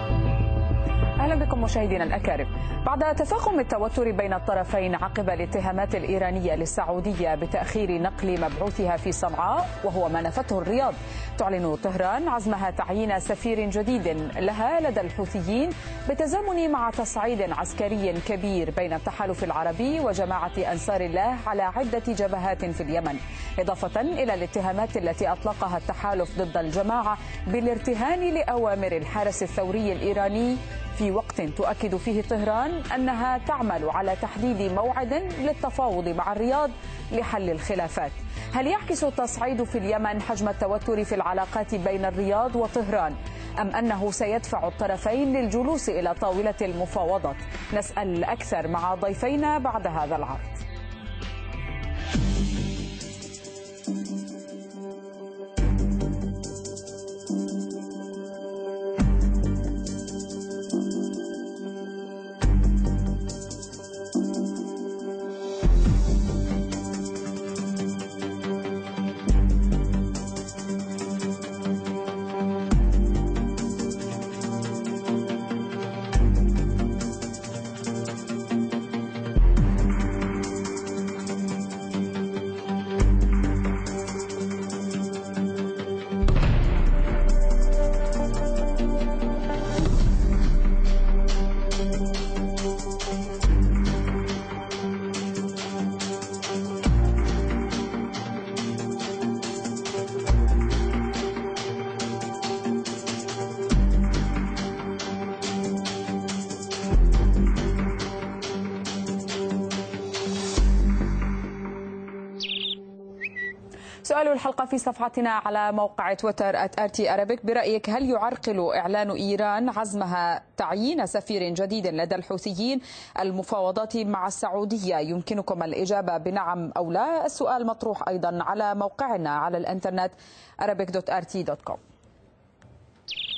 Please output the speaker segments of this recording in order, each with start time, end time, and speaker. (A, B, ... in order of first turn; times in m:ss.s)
0:01.2-0:50.6 A
1:54.0-2:11.8 A